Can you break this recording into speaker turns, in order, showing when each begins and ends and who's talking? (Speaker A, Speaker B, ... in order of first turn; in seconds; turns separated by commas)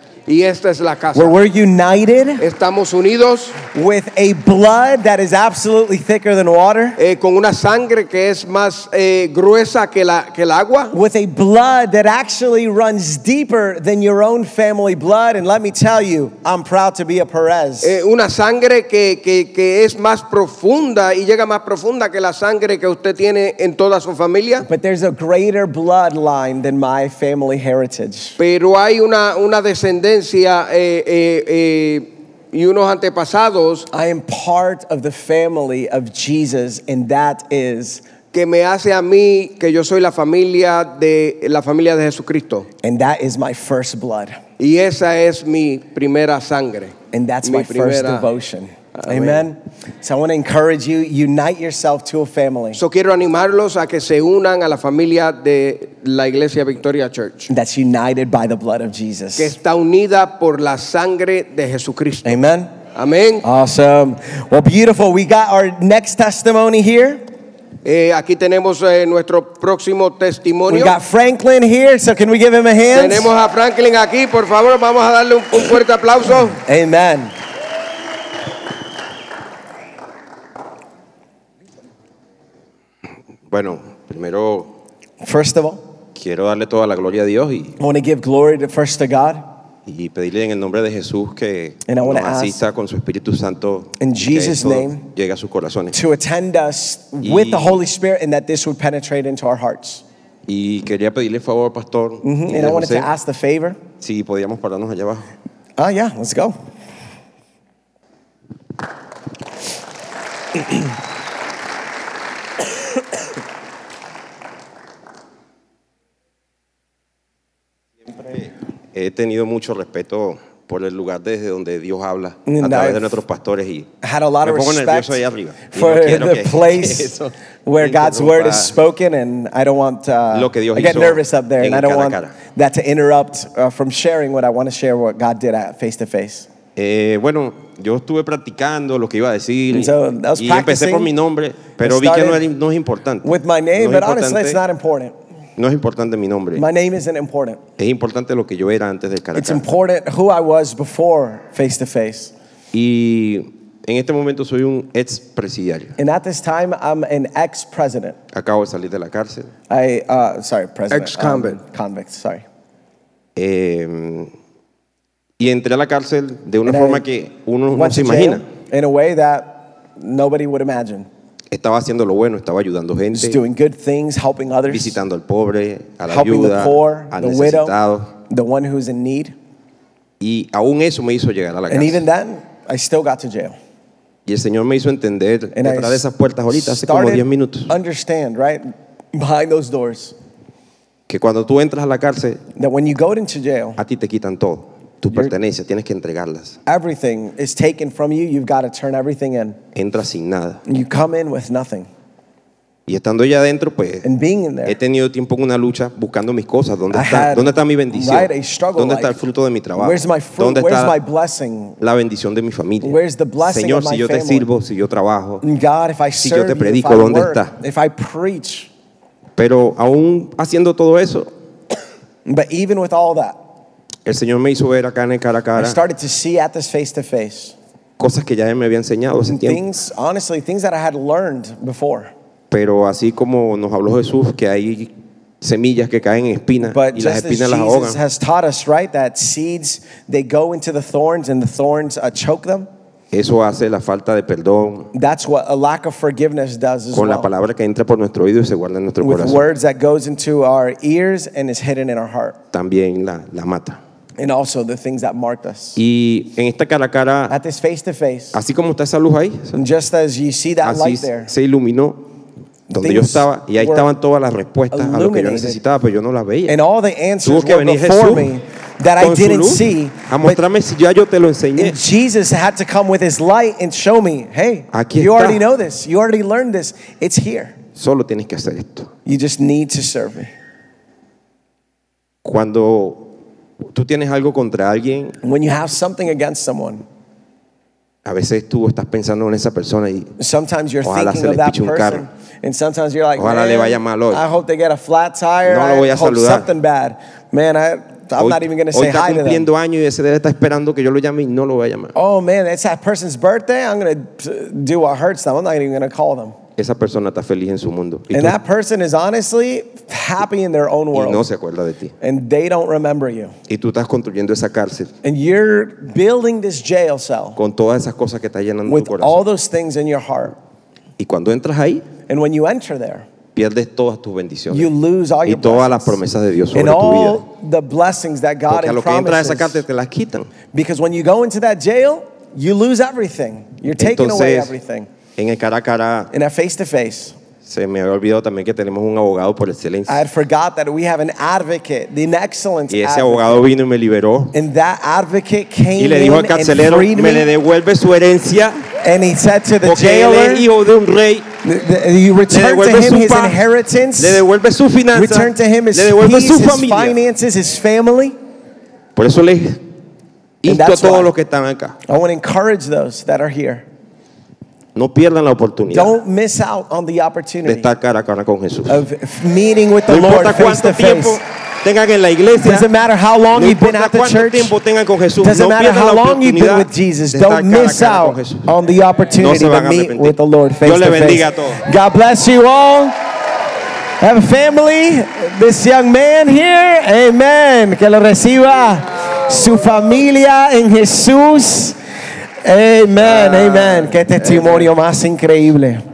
Speaker A: 0.3-1.4, Speaker B: 1.1-2.4, Speaker A: 2.4-3.6, Speaker B: 3.6-7.0, Speaker A: 7.0-10.9, Speaker B: 10.9-17.9, Speaker A: 17.8-24.7, Speaker B: 24.6-28.4, Speaker A: 28.4-33.9, Speaker B: 33.9-38.0, Speaker A: 38.3-42.7, Speaker B: 42.8-44.4, Speaker A: 44.6-48.3, Speaker B: 47.1-52.8, Speaker A: 49.0-49.4, Speaker A: 52.8-57.5, Speaker B: 57.5-59.5, Speaker A: 59.4-62.4, Speaker B: 62.2-62.7, Speaker A: 63.0-63.4, Speaker B: 63.4-67.2, Speaker A: 67.8-71.0, Speaker B: 70.7-73.3, Speaker A: 72.9-76.6, Speaker B: 76.5-77.3, Speaker C: 83.5-84.7, Speaker B: 85.2-85.8, Speaker C: 86.2-87.8, Speaker B: 87.8-89.5, Speaker C: 89.9-96.0, Speaker B: 91.9-92.6, Speaker B: 94.0-95.0, Speaker B: 95.9-100.0, Speaker C: 97.2-97.8, Speaker C: 100.5-103.1, Speaker B: 102.2-103.8, Speaker C: 104.0-105.3, Speaker B: 105.8-106.6, Speaker C: 118.3-123.9, Speaker B: 122.5-123.2, Speaker B: 124.0-127.2, Speaker C: 124.4-128.7, Speaker B: 127.7-136.5, Speaker C: 130.3-132.3, Speaker C: 136.8-144.6, Speaker B: 139.7-141.1, Speaker B: 141.8-142.4, Speaker B: 143.2-145.2, Speaker C: 145.6-146.6, Speaker B: 146.6-147.6, Speaker C: 147.8-149.6, Speaker B: 149.3-152.3, Speaker C: 152.7-155.9, Speaker B: 156.0-158.2, Speaker C: 158.3-159.5, Speaker B: 159.7-162.4, Speaker A: 160.9-161.6, Speaker C: 163.4-164.3, Speaker C: 165.4-168.4, Speaker B: 166.7-167.0, Speaker B: 167.7-171.1, Speaker C: 171.5-173.4, Speaker B: 173.1-175.0, Speaker C: 174.7-178.1, Speaker B: 176.1-177.8, Speaker B: 178.3-179.3, Speaker C: 180.2-182.0, Speaker B: 181.7-183.6, Speaker C: 184.3-187.7, Speaker B: 185.5-190.2, Speaker C: 191.1-192.4, Speaker B: 192.6-193.8, Speaker C: 193.8-196.6, Speaker B: 196.7-199.6, Speaker C: 199.8-200.6, Speaker B: 200.7-201.9, Speaker C: 202.9-204.1, Speaker B: 204.0-204.8, Speaker C: 204.7-211.0, Speaker B: 206.9-209.2, Speaker B: 209.8-211.8, Speaker C: 211.8-215.4, Speaker B: 212.8-214.5, Speaker B: 215.4-218.7, Speaker C: 216.2-217.5, Speaker C: 219.4-221.3, Speaker B: 222.3-223.4, Speaker C: 224.1-225.8, Speaker B: 225.6-227.6, Speaker C: 228.0-229.6, Speaker B: 229.3-232.1, Speaker C: 232.5-238.0, Speaker B: 236.6-242.7, Speaker C: 243.1-244.9, Speaker B: 244.9-247.3, Speaker C: 246.9-249.4, Speaker B: 249.0-252.4, Speaker C: 252.5-253.8, Speaker B: 254.2-255.8, Speaker C: 255.8-257.4, Speaker B: 257.3-258.4, Speaker C: 258.3-259.6, Speaker B: 259.5-261.3, Speaker C: 260.6-262.0, Speaker C: 262.7-266.6, Speaker B: 262.7-263.9, Speaker B: 264.7-265.6, Speaker B: 266.5-270.4, Speaker C: 267.2-268.3, Speaker C: 269.0-271.8, Speaker B: 271.6-277.6, Speaker C: 274.7-275.4, Speaker C: 277.8-278.9, Speaker B: 279.1-280.3, Speaker C: 282.2-283.1, Speaker C: 283.7-285.2, Speaker B: 285.2-286.9, Speaker C: 288.1-290.1, Speaker B: 290.2-299.5, Speaker C: 290.8-292.0, Speaker C: 293.2-294.2, Speaker C: 295.4-296.5, Speaker C: 298.2-301.9, Speaker B: 301.9-306.4, Speaker C: 306.6-308.4, Speaker B: 308.1-311.3, Speaker C: 310.9-311.9, Speaker B: 312.0-313.3, Speaker C: 313.5-314.9, Speaker B: 315.0-317.4, Speaker C: 317.4-319.2, Speaker B: 318.7-320.4, Speaker C: 321.0-321.9, Speaker B: 322.1-323.1, Speaker C: 323.4-324.7, Speaker B: 324.5-326.0, Speaker C: 325.2-327.2, Speaker B: 326.5-329.6, Speaker C: 328.5-330.3, Speaker B: 330.5-334.9, Speaker C: 333.8-334.5, Speaker C: 335.2-336.1, Speaker B: 336.1-337.2, Speaker C: 337.4-340.0, Speaker B: 339.9-343.4, Speaker C: 342.7-344.3, Speaker B: 344.3-347.3, Speaker C: 345.8-348.6, Speaker B: 348.8-350.5, Speaker C: 349.6-351.3, Speaker B: 351.4-354.2, Speaker C: 352.3-353.4, Speaker C: 354.0-357.0, Speaker B: 354.9-358.2, Speaker C: 359.0-359.6, Speaker C: 360.4-361.8, Speaker B: 360.4-361.1, Speaker B: 361.9-363.7, Speaker C: 364.8-365.9, Speaker B: 365.7-367.7, Speaker C: 367.4-368.9, Speaker B: 368.7-371.2, Speaker C: 369.9-372.7, Speaker B: 372.4-374.6, Speaker C: 373.3-378.5, Speaker B: 375.2-383.0, Speaker C: 379.2-381.6, Speaker B: 384.0-391.8, Speaker B: 392.4-395.8, Speaker A: 393.0-394.7